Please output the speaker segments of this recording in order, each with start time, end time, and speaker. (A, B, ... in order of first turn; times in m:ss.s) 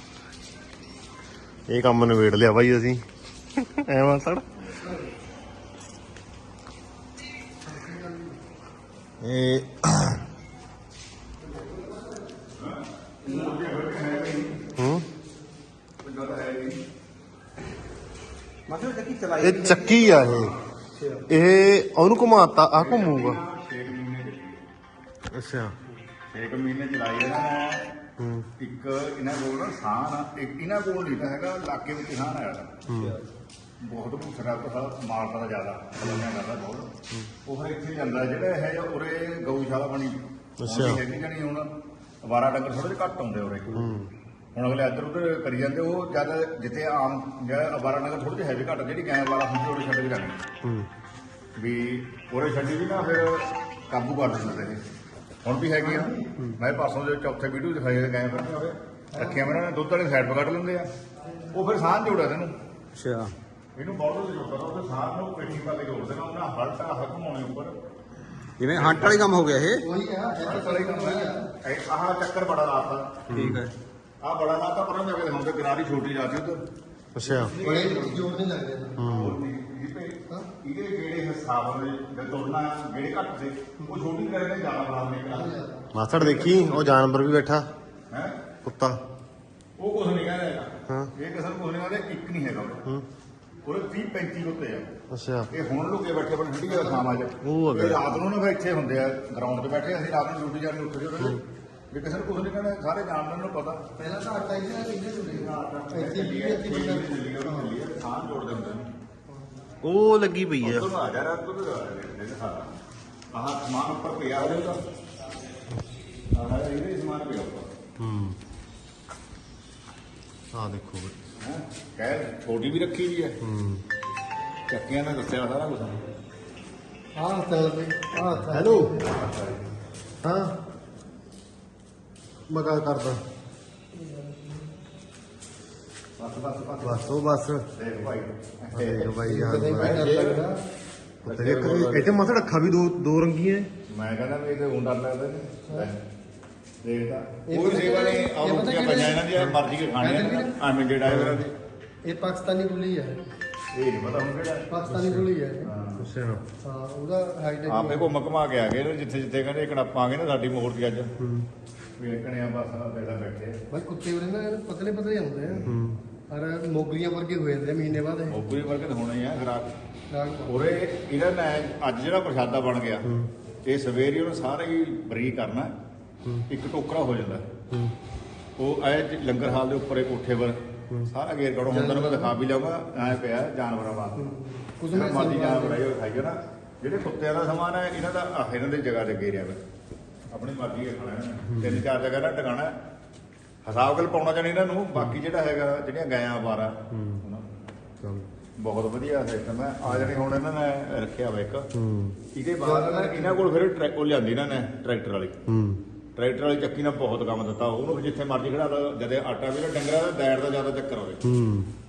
0:01.7-0:03.0 A
0:03.6-0:04.4 A
0:07.6-0:08.4 B
0:09.2-0:09.9 A
0:12.6-0:14.6 C
0:14.8-0:15.0 A
0:16.0-0:16.8 C
0:18.7-0:20.3 D
0:19.4-0:20.5 A
0:21.3-0:23.4 A
0:22.6-0:24.7 C
0:25.3-0:25.8 A
0:26.3-0:27.9 C
0:28.2-0:28.5 A
0:28.6-0:32.7 C
0:32.9-0:33.2 A
0:33.8-0:36.9 C
0:36.0-0:36.2 A
0:37.4-0:41.7 C
0:40.6-0:41.0 A
0:42.2-0:43.8 C
0:43.7-0:44.1 A
0:44.5-0:50.4 C
0:50.6-0:50.9 A
0:51.6-0:54.8 C
0:55.4-1:00.9 C
0:59.1-0:59.6 B
1:01.5-1:02.5 C
1:02.9-1:03.3 D
1:03.8-1:07.8 C
1:08.6-1:09.8 D
1:08.7-1:09.2 C
1:09.8-1:11.5 B
1:10.4-1:13.1 C
1:13.3-1:13.6 A
1:13.3-1:13.7 D
1:14.2-1:16.6 C
1:17.1-1:17.5 A
1:17.3-1:18.3 C
1:17.6-1:19.0 B
1:19.0-1:19.4 A
1:19.1-1:25.5 C
1:25.3-1:25.9 B
1:25.9-1:27.7 A
1:26.1-1:27.0 C
1:28.1-1:28.4 C
1:28.6-1:29.0 A
1:29.8-1:32.8 C
1:30.9-1:31.1 A
1:33.6-1:34.9 C
1:35.1-1:35.5 A
1:35.5-1:43.8 C
1:36.7-1:37.2 B
1:37.4-1:38.1 A
1:44.0-1:47.8 B
1:45.2-1:48.9 C
1:49.8-1:50.9 A
1:50.6-1:52.7 C
1:53.3-1:54.8 C
1:56.3-1:57.7 C
1:58.0-1:58.4 A
2:00.5-2:01.1 A
2:01.4-2:03.4 C
2:03.4-2:03.8 A
2:04.7-2:06.0 C
2:07.1-2:09.1 B
2:08.5-2:08.9 A
2:09.0-2:09.7 C
2:10.2-2:10.5 A
2:12.5-2:13.2 A
2:13.9-2:14.7 B
2:16.2-2:17.0 C
2:16.8-2:17.7 A
2:17.8-2:19.2 C
2:18.7-2:20.1 A
2:19.2-2:20.6 B
2:19.7-2:20.4 C
2:21.2-2:23.7 A
2:21.2-2:22.2 C
2:23.9-2:26.0 C
2:25.6-2:25.9 B
2:26.8-2:31.5 C
2:27.5-2:29.2 B
2:30.0-2:30.5 B
2:31.0-2:31.4 A
2:32.0-2:33.2 B
2:33.7-2:34.7 C
2:34.7-2:35.7 B
2:34.9-2:35.3 A
2:35.6-2:36.0 C
2:36.0-2:36.4 A
2:36.6-2:38.1 B
2:37.7-2:41.1 C
2:41.2-2:41.5 A
2:42.0-2:43.5 C
2:43.7-2:45.7 B
2:45.5-2:45.8 C
2:45.6-2:46.0 A
2:46.3-2:48.4 B
2:48.3-2:49.7 C
2:50.1-2:50.7 B
2:50.5-2:53.1 C
2:53.0-2:53.3 A
2:53.6-2:55.7 C
2:56.5-2:57.4 C
2:58.6-3:00.6 C
3:01.1-3:04.2 C
3:01.7-3:02.4 B
3:04.2-3:05.8 B
3:04.9-3:09.6 C
3:10.3-3:12.8 C
3:11.5-3:11.8 A
3:13.6-3:17.5 C
3:16.9-3:17.2 A
3:18.0-3:18.3 A
3:18.6-3:21.7 C
3:19.9-3:20.1 A
3:21.7-3:22.2 A
3:22.3-3:25.4 C
3:22.6-3:23.5 B
3:25.5-3:25.8 A
3:26.2-3:31.2 C
3:31.2-3:31.7 A